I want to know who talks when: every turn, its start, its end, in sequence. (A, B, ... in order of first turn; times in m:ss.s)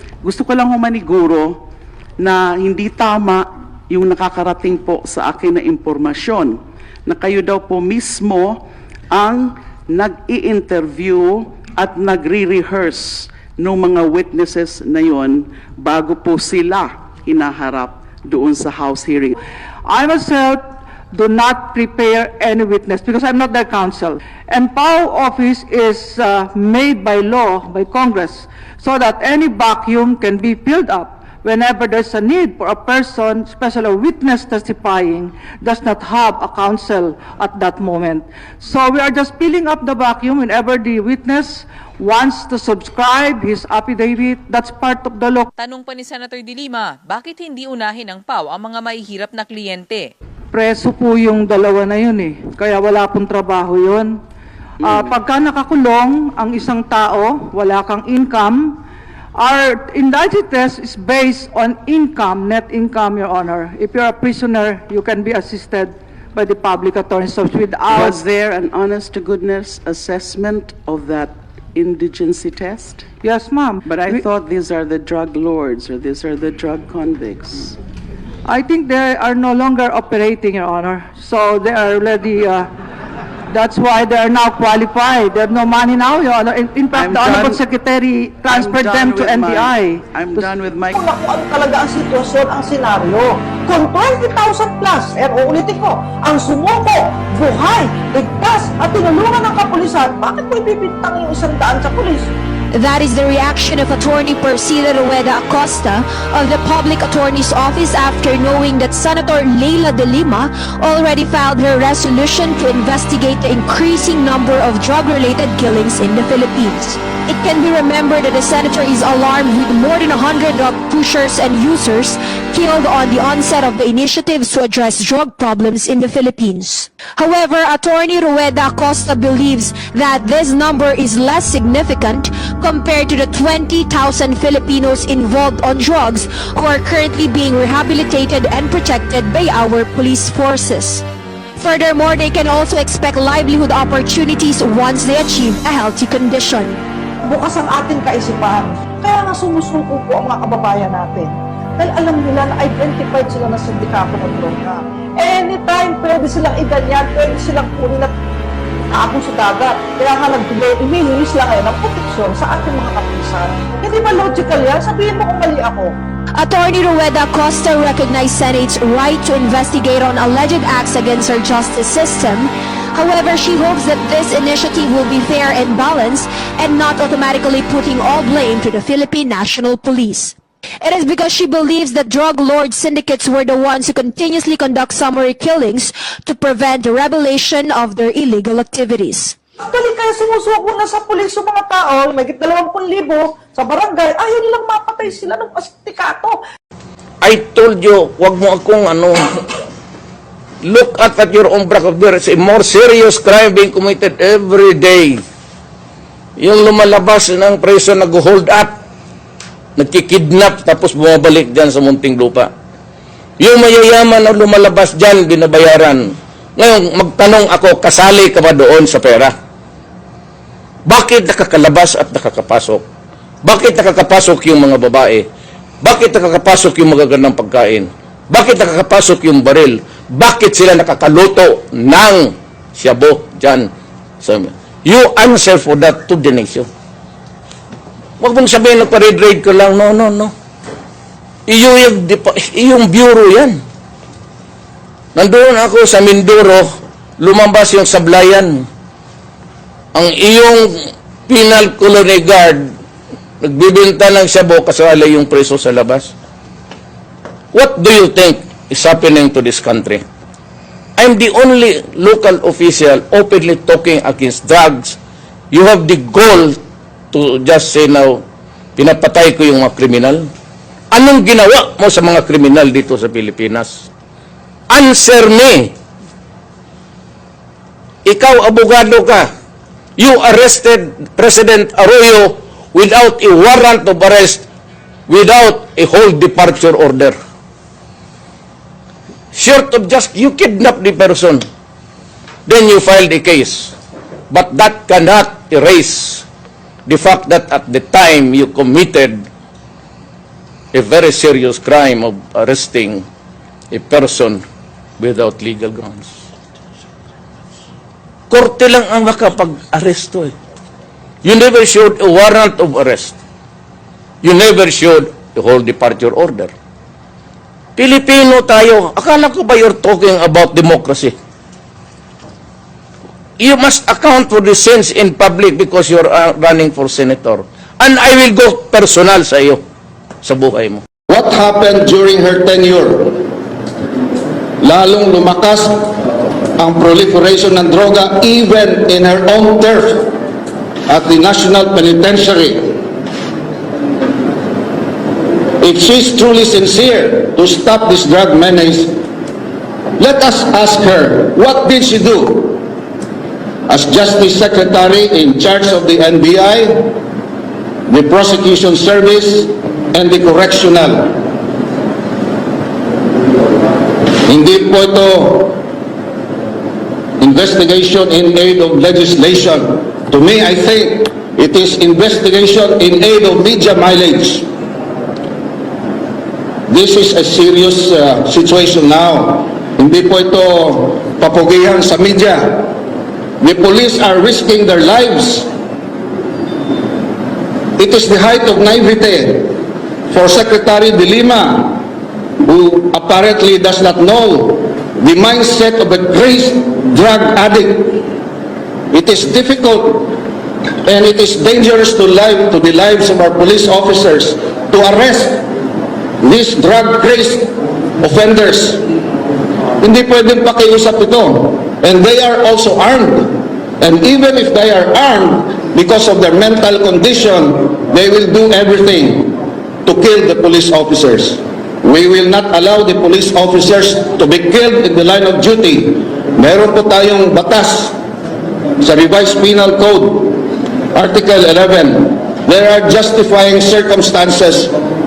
0:00.2-0:01.6 A
0:02.2-0:19.4 A
0:19.8-0:45.5 B
0:45.6-0:50.1 C
0:50.5-0:54.1 B
0:54.8-0:55.2 A
0:54.8-0:58.8 B
0:59.4-1:08.2 B
1:07.9-1:13.0 A
1:13.2-1:14.2 B
1:13.8-1:17.8 A
1:18.4-1:22.7 B
1:23.5-1:30.5 B
1:26.9-1:27.6 A
1:28.4-1:31.1 A
1:30.9-1:42.3 D
1:42.7-2:21.0 E
2:21.6-2:26.8 E
2:27.3-2:38.1 D
2:38.9-2:45.9 D
2:46.4-3:09.4 E
3:09.6-3:16.4 D
3:17.2-3:19.2 F
3:20.6-3:25.2 F
3:26.4-3:28.7 F
3:29.8-3:32.5 F
3:33.4-3:39.3 F
3:40.8-3:42.8 F
3:43.4-3:45.3 F
3:45.8-3:53.7 F
3:54.2-3:56.7 F
3:58.2-4:00.3 F
4:01.5-4:03.6 F
4:05.1-4:06.7 F
4:07.2-4:08.6 F
4:09.9-4:12.7 F
4:13.4-4:16.1 F
4:17.5-4:20.0 F
4:21.0-4:25.0 F
4:25.5-4:26.6 F
4:27.1-4:28.2 F
4:28.8-4:30.3 F
4:30.9-4:33.8 F
4:34.7-4:35.7 F
4:38.0-4:39.3 F
4:40.0-4:44.4 F
4:45.1-4:47.2 F
4:49.3-4:51.4 F
4:52.4-4:53.7 F
4:54.3-4:56.2 F
4:56.8-4:59.2 F
5:00.7-5:03.0 F
5:03.7-5:04.4 F
5:05.0-5:06.1 F
5:08.3-5:10.3 F
5:11.2-5:13.2 F
5:14.2-5:16.5 F
5:17.8-5:21.1 F
5:23.4-5:29.6 F
5:30.2-5:30.8 F
5:31.1-5:33.2 G
5:34.6-5:35.9 G
5:36.6-5:40.1 G
5:40.9-5:42.7 G
5:45.6-5:48.9 G
5:50.0-5:52.6 G
5:53.7-5:56.9 G
5:57.9-6:01.2 G
6:04.2-6:05.6 G
6:07.2-6:14.5 G
6:16.7-6:22.7 G
6:23.4-6:25.5 G
6:27.8-6:29.5 G
6:30.1-6:31.8 G
6:32.4-6:38.0 G
6:38.9-6:40.2 G
6:40.8-6:45.5 G
6:46.2-6:48.8 G
6:49.8-7:08.0 G
7:08.8-7:10.4 G
7:10.9-7:14.7 G